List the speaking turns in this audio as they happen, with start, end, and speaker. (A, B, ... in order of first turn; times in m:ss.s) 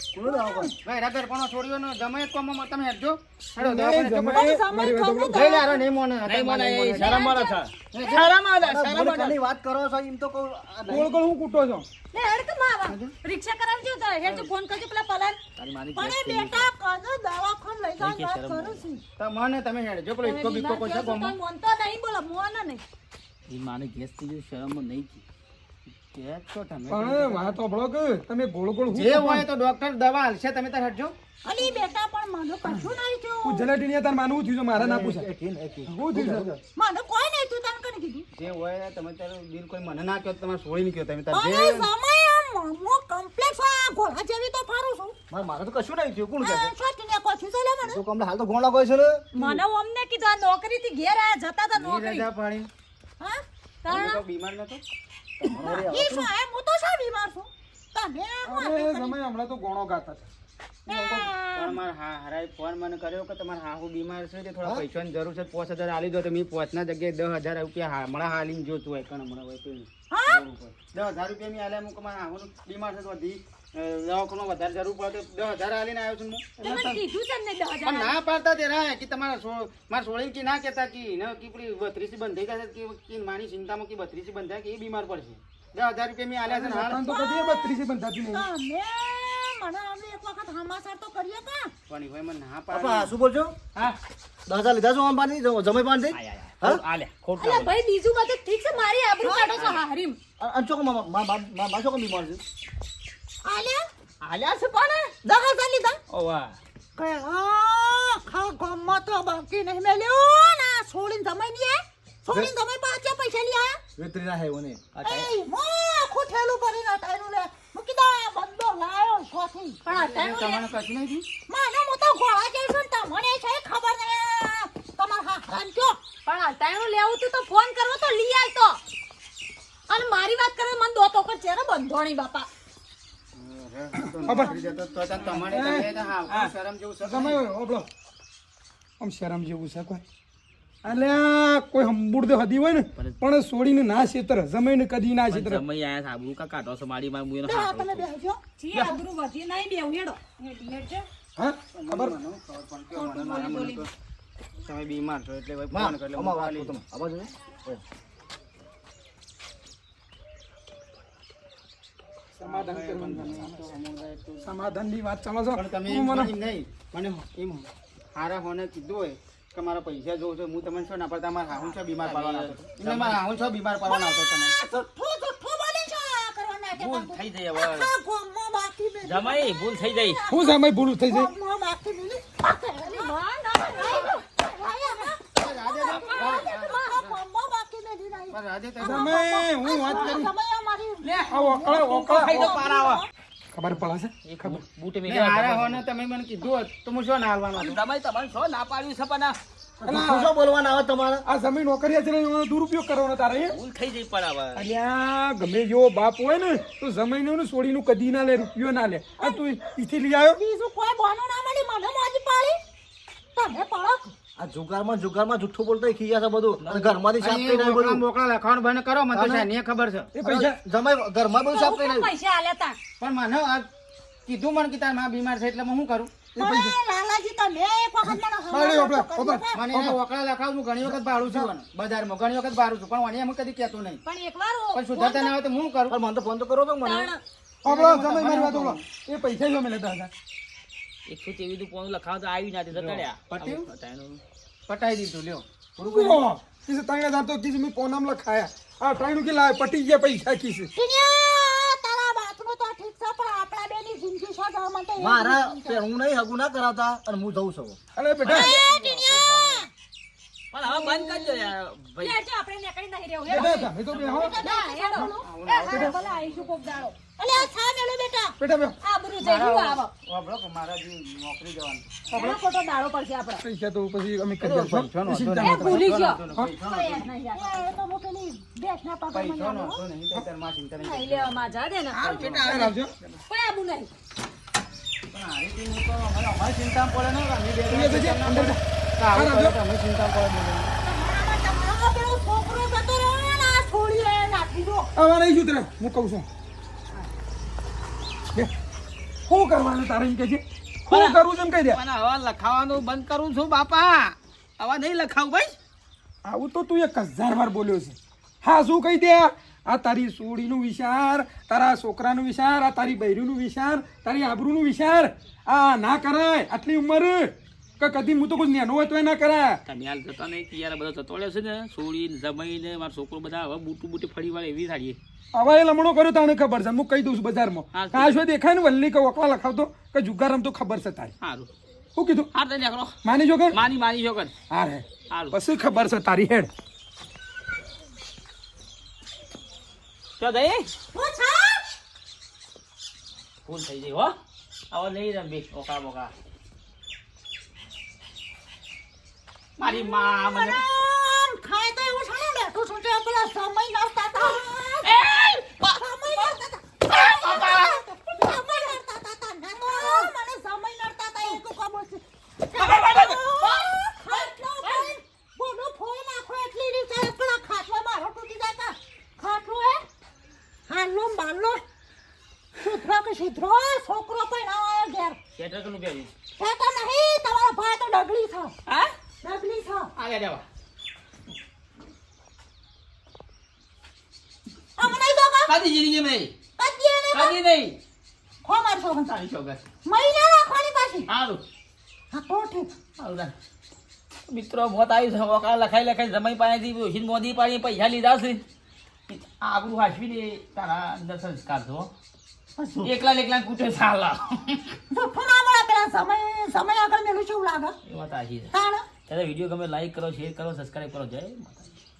0:00.1-0:00.7 A
0:00.8-0:04.5 B
0:03.6-0:05.5 C
0:04.4-0:05.8 D
0:05.3-0:07.2 B
0:06.2-0:09.4 E
0:07.0-0:07.6 D
0:07.9-0:08.3 B
0:08.6-0:11.1 A
0:10.9-0:11.8 C
0:12.1-0:15.4 D
0:12.9-0:13.1 B
0:15.6-0:16.7 E
0:15.9-0:19.0 F
0:18.0-0:18.8 E
0:19.2-0:21.4 B
0:20.2-0:22.8 D
0:23.5-0:25.2 E
0:26.1-0:27.6 B
0:26.9-0:29.5 C
0:28.9-0:31.1 B
0:31.4-0:33.7 F
0:33.4-0:35.2 C
0:34.8-0:36.6 A
0:35.9-0:36.6 C
0:36.8-0:38.2 F
0:38.3-0:41.9 B
0:41.3-0:45.1 F
0:45.3-0:46.7 A
0:46.4-0:48.0 F
0:47.8-0:49.3 A
0:49.3-0:52.3 D
0:51.8-0:52.7 B
0:53.8-0:54.2 D
0:53.8-0:54.8 B
0:55.4-0:56.3 A
0:55.5-0:55.9 D
0:55.6-0:59.2 F
0:58.4-1:00.3 C
1:00.9-1:01.8 F
1:00.9-1:16.5 B
1:10.1-1:10.4 F
1:16.6-1:17.0 C
1:16.6-1:18.2 D
1:17.8-1:27.1 B
1:26.5-1:28.4 C
1:27.0-1:27.8 F
1:28.3-1:31.7 F
1:31.9-1:33.1 B
1:32.7-1:33.6 A
1:34.5-1:36.8 A
1:36.1-1:37.7 E
1:37.4-1:40.2 D
1:39.2-1:39.5 F
1:40.4-1:42.4 A
1:43.4-1:43.8 F
1:44.2-1:45.1 E
1:45.2-1:46.0 F
1:46.1-1:46.6 E
1:47.0-1:53.8 F
1:54.0-1:54.8 A
1:54.9-1:55.3 E
1:55.0-1:59.8 F
1:59.8-2:00.6 D
1:59.9-2:01.3 B
2:01.5-2:06.0 F
2:06.2-2:08.8 D
2:09.9-2:12.5 D
2:13.3-2:17.4 B
2:14.0-2:14.6 C
2:15.5-2:15.9 C
2:16.3-2:16.5 E
2:17.0-2:17.9 C
2:19.0-2:20.0 C
2:20.8-2:25.6 C
2:25.3-2:28.0 E
2:27.4-2:29.0 F
2:28.6-2:31.0 D
2:31.4-2:32.1 C
2:31.7-2:33.9 B
2:32.9-2:33.8 D
2:34.6-2:36.7 B
2:35.7-2:37.8 A
2:42.3-2:43.6 C
2:42.4-2:44.6 B
2:44.4-2:46.3 C
2:45.5-2:54.5 B
2:51.5-2:53.2 E
2:53.9-3:13.1 F
2:56.8-2:57.9 E
2:59.0-3:00.2 E
3:00.3-3:01.3 C
3:02.8-3:05.1 D
3:05.4-3:07.1 B
3:05.8-3:06.8 D
3:08.3-3:09.2 B
3:08.8-3:10.3 C
3:11.0-3:11.3 E
3:11.3-3:12.6 C
3:12.0-3:13.0 E
3:13.5-3:14.6 C
3:14.2-3:15.8 E
3:15.1-3:17.8 B
3:17.5-3:19.4 E
3:19.8-3:20.3 C
3:19.8-3:21.2 A
3:21.2-3:23.6 C
3:23.5-3:24.7 E
3:24.6-3:30.4 C
3:30.4-3:32.6 F
3:33.4-3:34.1 F
3:34.4-3:38.0 A
3:36.6-3:37.0 E
3:37.2-3:40.1 B
3:39.1-3:39.5 A
3:40.1-3:40.6 C
3:40.2-3:42.1 A
3:41.5-3:42.8 D
3:43.0-3:43.7 B
3:44.2-3:46.1 B
3:46.4-3:46.7 C
3:46.4-3:49.6 F
3:48.1-3:50.0 C
3:49.5-3:54.0 B
3:54.0-3:55.3 D
3:54.7-3:56.0 B
3:55.9-3:57.1 A
3:56.8-3:57.2 D
3:57.6-4:00.1 C
3:57.6-3:58.8 B
4:01.1-4:04.2 E
4:02.7-4:03.6 B
4:04.7-4:05.4 B
4:05.8-4:06.2 A
4:05.9-4:10.7 C
4:10.8-4:15.8 F
4:15.0-4:17.8 A
4:18.0-4:18.5 C
4:18.2-4:19.7 F
4:18.2-4:19.6 B
4:20.5-4:22.2 E
4:20.6-4:27.0 D
4:23.3-4:24.4 C
4:23.3-4:25.2 F
4:23.9-4:24.2 B
4:25.2-4:26.8 B
4:27.2-4:28.4 F
4:28.4-4:28.8 C
4:28.8-4:29.9 D
4:29.2-4:32.1 B
4:32.1-4:32.4 C
4:32.1-4:33.4 D
4:33.4-4:36.5 C
4:34.4-4:37.1 B
4:35.4-4:37.7 D
4:37.3-4:39.8 F
4:39.1-4:41.5 B
4:40.8-4:42.7 D
4:41.9-4:43.2 C
4:42.0-4:42.7 B
4:43.3-4:43.9 D
4:45.1-4:50.7 B
4:47.7-4:48.6 C
4:49.1-4:49.6 C
4:50.8-4:54.9 F
4:54.9-4:56.2 C
4:59.3-5:01.8 C
5:00.9-5:01.2 E
5:01.7-5:05.6 E
5:06.2-5:19.6 C
5:19.6-5:25.0 E
5:25.3-5:31.1 C
5:27.7-5:28.2 E
5:31.2-5:31.5 E
5:32.0-5:32.3 C
5:32.3-5:32.9 E
5:33.0-5:33.6 C
5:33.5-5:34.3 E
5:34.5-5:36.5 C
5:35.1-5:35.4 E
5:40.2-5:40.7 E
5:40.9-5:41.6 F
5:43.4-5:44.2 E
5:44.7-5:46.1 E
5:49.6-5:50.6 E
5:49.6-6:09.8 F
5:54.8-5:56.3 E
5:56.9-5:57.8 E
5:59.7-6:00.1 D
6:02.6-6:03.2 E
6:03.4-6:04.9 D
6:10.7-6:11.6 F
6:12.6-6:15.2 F
6:15.4-6:16.1 E
6:16.4-6:18.5 F
6:18.7-6:18.9 E
6:19.2-6:19.9 F
6:20.0-6:20.4 E
6:24.8-6:25.5 F
6:25.5-6:26.3 E
6:26.6-6:27.4 F
6:27.1-6:27.8 E
6:28.4-6:29.1 F
6:29.0-6:29.6 E
6:29.8-6:31.1 F
6:31.1-6:31.4 E
6:32.1-6:32.7 F
6:33.0-6:33.3 E
6:34.3-6:38.4 E
6:39.1-6:41.9 E
6:42.6-6:42.9 F
6:42.8-6:44.8 E
6:44.9-6:47.8 F
6:47.8-6:48.5 E
6:48.5-6:48.8 F
6:49.1-6:51.8 E